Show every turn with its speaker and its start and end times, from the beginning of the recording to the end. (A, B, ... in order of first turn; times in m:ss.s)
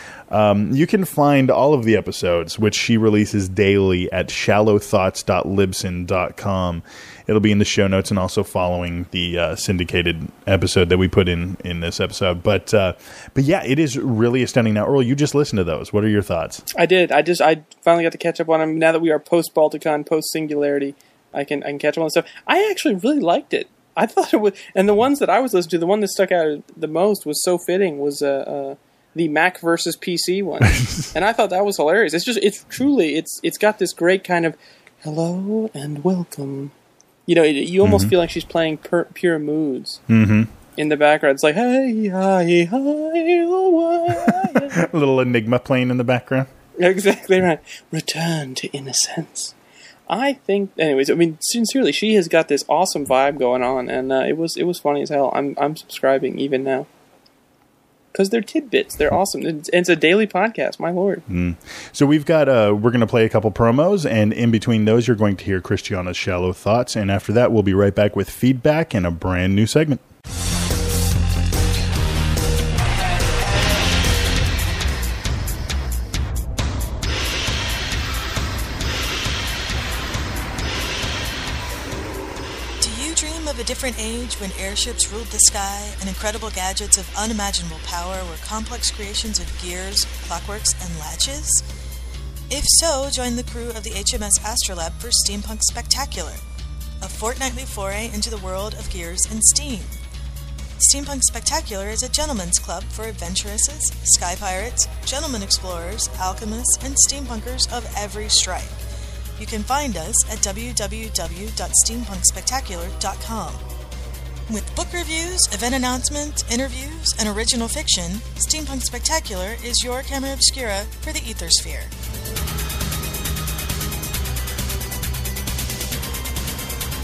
0:00.3-0:16.6 A
0:16.7-0:36.7 B
0:30.6-0:31.1 A
0:37.3-0:40.0 B
0:37.8-0:38.1 A
0:40.1-0:40.5 A
0:40.8-0:44.8 B
0:44.2-0:46.5 A
0:46.8-0:49.5 B
0:50.1-0:56.9 B
0:58.1-1:01.2 B
1:01.3-1:10.0 A
1:22.8-1:31.6 C
1:32.5-1:36.4 C
1:37.0-1:40.0 C
1:40.8-1:48.8 C
1:49.4-1:53.6 C
1:54.5-2:01.9 C